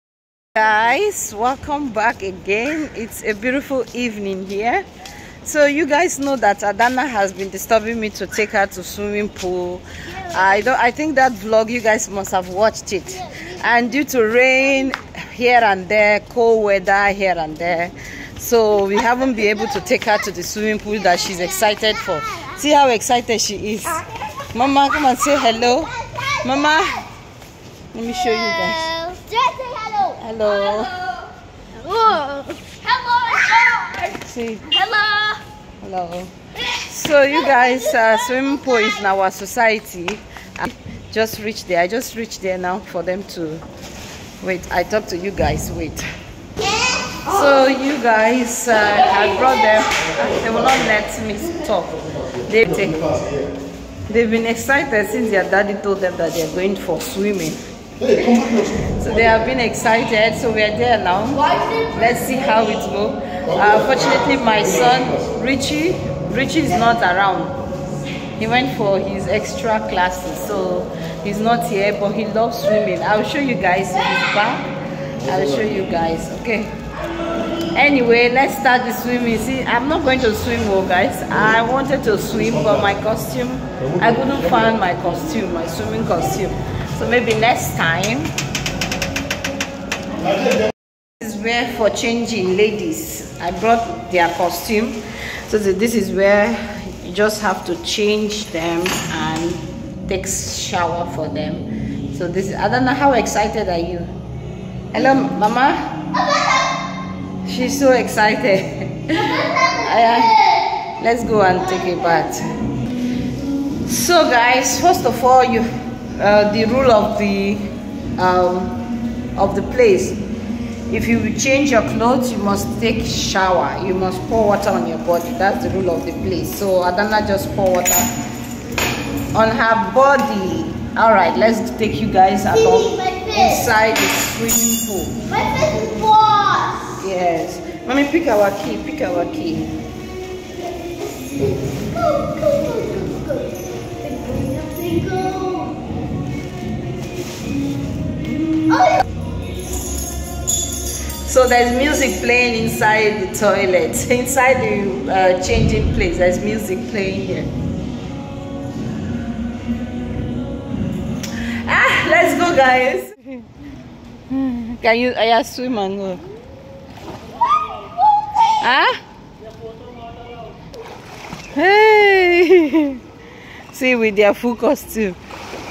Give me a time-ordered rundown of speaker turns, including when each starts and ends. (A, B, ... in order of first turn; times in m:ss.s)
0:00.6-0:04.9 A
0:05.4-0:27.0 A
0:10.2-0:10.5 B
0:13.2-0:13.8 B
0:19.3-0:19.9 B
0:21.2-0:22.6 B
0:23.9-0:24.4 B
0:25.1-0:27.0 B
0:27.9-0:28.9 A
0:28.2-0:35.4 B
0:30.2-0:31.0 A
0:34.1-0:34.7 A
0:35.8-0:43.6 A
0:37.5-0:38.6 B
0:44.4-0:46.0 A
0:46.6-0:47.2 B
0:47.2-0:53.2 A
0:54.1-0:57.6 A
0:58.2-1:07.6 A
1:08.4-1:14.7 A
1:15.2-1:16.8 A
1:17.7-1:28.3 A
1:31.2-1:44.1 A
1:44.9-1:46.0 A
1:47.4-1:50.4 A
1:49.2-1:50.6 B
1:51.0-1:52.5 A
1:53.8-1:58.8 A
1:59.4-2:00.2 A
2:00.9-2:08.1 A
2:09.3-2:15.2 A
2:12.5-2:13.7 B
2:15.3-2:17.0 B
2:17.0-2:19.8 A
2:21.1-2:25.8 B
2:28.3-2:28.9 A
2:31.2-2:37.5 A
2:41.6-2:43.2 A
2:44.3-2:46.2 A
2:48.4-2:49.0 A
2:51.5-2:53.0 A
2:53.7-2:55.2 A